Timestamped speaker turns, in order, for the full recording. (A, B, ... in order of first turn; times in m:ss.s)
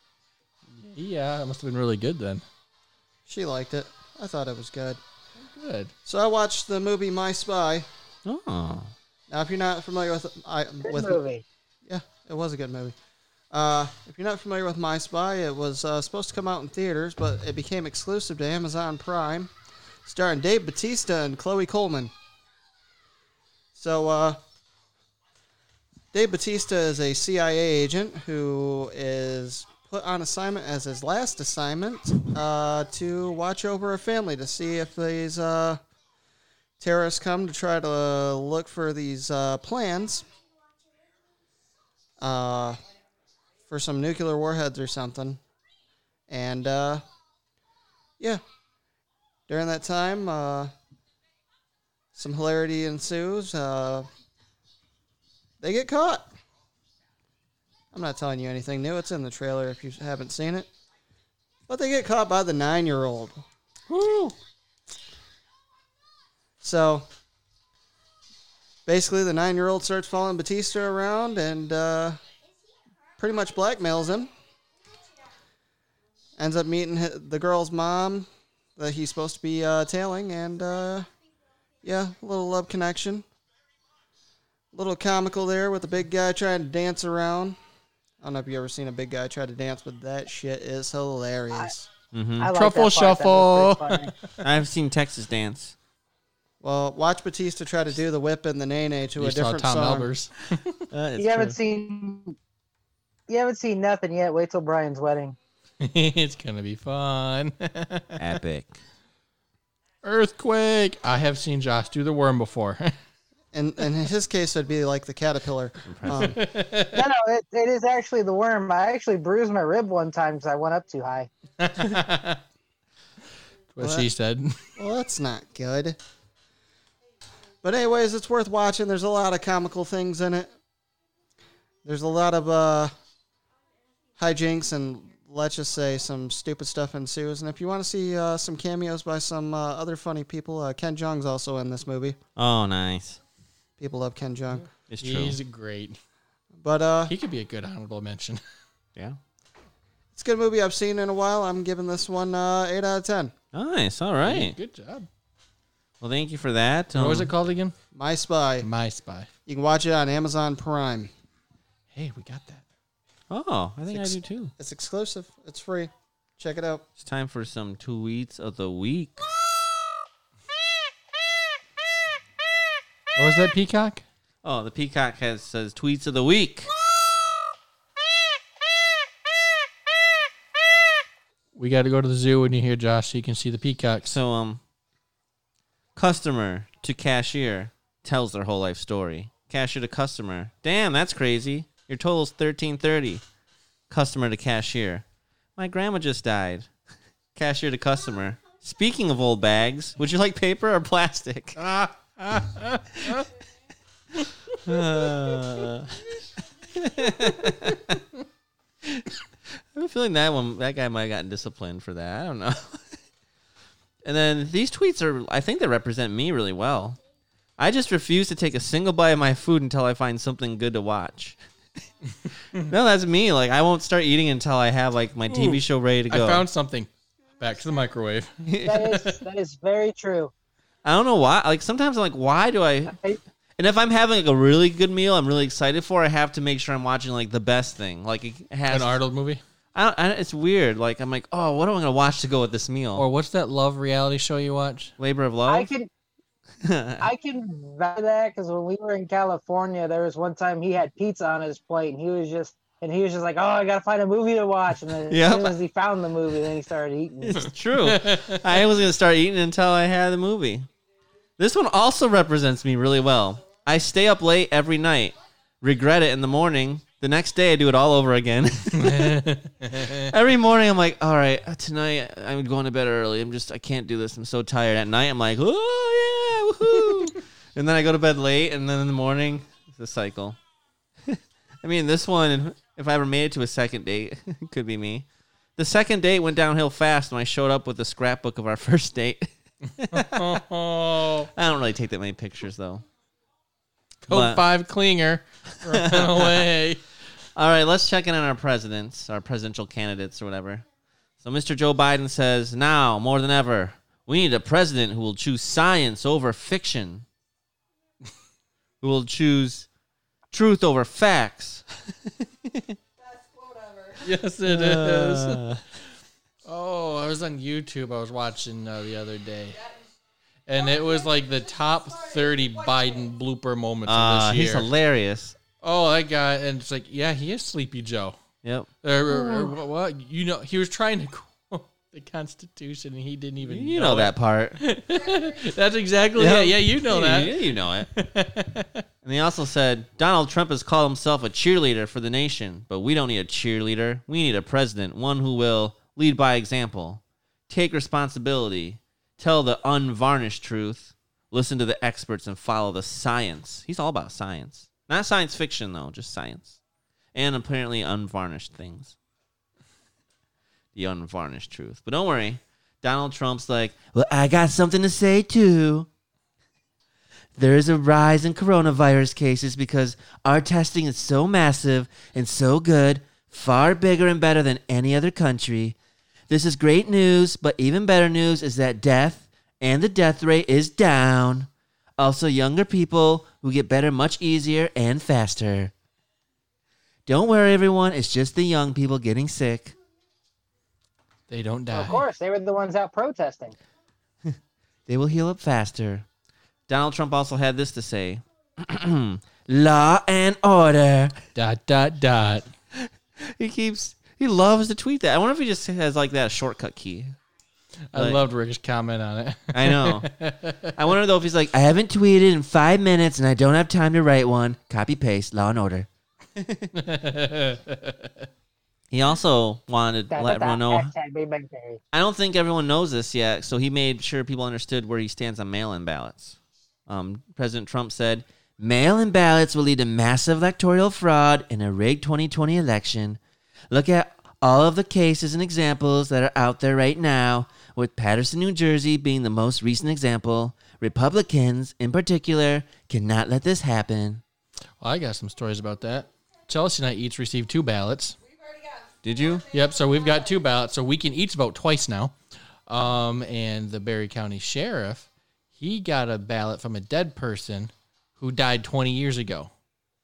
0:00.7-0:02.4 A
0:03.2-0:05.0 B
0:05.4-0:05.9 A
0:06.0-0:07.9 B
0:08.2-0:08.9 C
0:09.3-0:11.2 B
0:10.9-0:11.4 D
0:11.8-0:12.9 B
0:13.5-0:19.5 B
0:20.0-0:22.1 B
0:23.7-0:24.4 B
0:26.1-0:35.8 B
0:36.8-0:40.2 B
0:42.2-0:42.8 B
0:43.7-0:45.4 B
0:46.3-0:47.0 B
0:49.5-0:50.7 B
0:52.1-0:54.1 B
0:55.6-0:56.3 B
0:57.9-1:00.7 B
1:01.7-1:03.4 B
1:03.9-1:04.3 C
1:06.6-1:07.1 B
1:08.8-1:12.2 B
1:13.2-1:14.3 B
1:16.4-1:21.1 B
1:21.8-1:23.2 B
1:24.7-1:27.6 B
1:28.2-1:31.9 B
1:32.1-1:32.5 C
1:32.4-1:34.1 D
1:32.5-1:34.4 A
1:34.4-1:35.8 C
1:36.6-1:40.1 B
1:39.2-1:40.8 A
1:40.9-1:41.6 C
1:41.2-1:42.4 D
1:43.3-1:45.4 D
1:45.8-1:48.2 A
1:48.2-1:48.8 C
1:50.0-1:52.9 A
1:53.5-1:56.4 B
1:55.8-1:56.3 C
1:56.1-1:57.0 A
1:56.9-2:01.3 D
2:01.6-2:02.4 A
2:03.7-2:04.6 A
2:03.8-2:04.1 B
2:04.8-2:06.0 B
2:07.6-2:10.5 B
2:11.8-2:12.9 B
2:14.2-2:22.2 B
2:22.4-2:23.2 C
2:23.8-2:24.7 B
2:24.9-2:25.4 C
2:25.0-2:26.0 A
2:26.6-2:27.1 B
2:27.1-2:28.4 A
2:30.1-2:33.3 B
2:33.5-2:34.6 C
2:34.2-2:35.1 A
2:36.0-2:37.3 C
2:36.9-2:37.7 A
2:37.9-2:38.7 B
2:38.6-2:39.3 A
2:39.5-2:41.1 B
2:41.9-2:42.6 A
2:43.3-2:44.5 C
2:44.6-2:46.8 B
2:47.0-2:49.2 C
2:53.2-2:54.0 A
2:54.4-2:56.7 C
3:01.6-3:04.2 A
3:04.0-3:04.6 C
3:05.9-3:13.2 C
3:13.9-3:15.0 C
3:15.6-3:16.7 C
3:17.3-3:21.6 C
3:21.6-3:23.3 A
3:24.6-3:26.1 C
3:26.7-3:28.0 C
3:29.7-3:32.8 C
3:34.0-3:37.0 C
3:37.6-3:41.4 C
3:42.5-3:46.4 C
3:45.3-3:49.2 A
3:48.4-3:49.0 C
3:48.6-3:50.3 D
3:50.8-3:53.0 C
3:52.9-3:53.2 D
3:53.6-3:59.0 C
3:58.7-3:59.4 A
3:59.7-4:03.0 C
4:03.0-4:04.9 A
4:05.0-4:05.7 C
4:05.5-4:05.9 D
4:06.6-4:07.1 C
4:07.0-4:17.5 D
4:15.1-4:15.6 C
4:17.2-4:20.7 C
4:17.8-4:18.4 A
4:21.4-4:40.4 C
4:28.8-4:30.1 A
4:41.1-4:50.4 C
4:49.9-4:51.3 A
4:51.3-4:52.8 C
4:54.0-4:56.8 A
4:54.1-4:54.4 C
4:55.5-4:56.5 C
4:57.4-5:00.6 C
5:01.2-5:07.0 C
5:08.8-5:09.7 C
5:10.3-5:11.6 C
5:12.2-5:12.8 C
5:14.0-5:15.5 A
5:14.4-5:15.6 C
5:16.4-5:19.6 A
5:20.4-5:24.7 A
5:23.8-5:25.4 C
5:25.6-5:28.2 A
5:28.4-5:29.5 C
5:28.8-5:38.8 A
5:33.4-5:34.6 C
5:36.2-5:37.9 C
5:39.0-5:56.6 C
5:57.1-5:59.0 C
6:00.7-6:05.9 C
6:07.4-6:15.8 C
6:16.3-6:25.7 C
6:27.1-6:29.8 C
6:31.3-6:32.0 A
6:31.7-6:33.6 D
6:34.9-6:36.0 C
6:36.7-6:41.2 C
6:41.3-6:42.5 A
6:42.7-6:47.2 C
6:47.9-6:50.7 A
6:47.9-6:48.2 C
6:49.5-6:50.1 C
6:50.7-6:56.7 C
6:56.7-6:58.2 A
6:58.9-7:00.9 C
7:00.1-7:01.8 D
7:01.9-7:13.2 C
7:13.7-7:24.2 C
7:24.8-7:28.2 A
7:29.0-7:29.5 C
7:29.5-7:32.1 A
7:32.7-7:39.5 A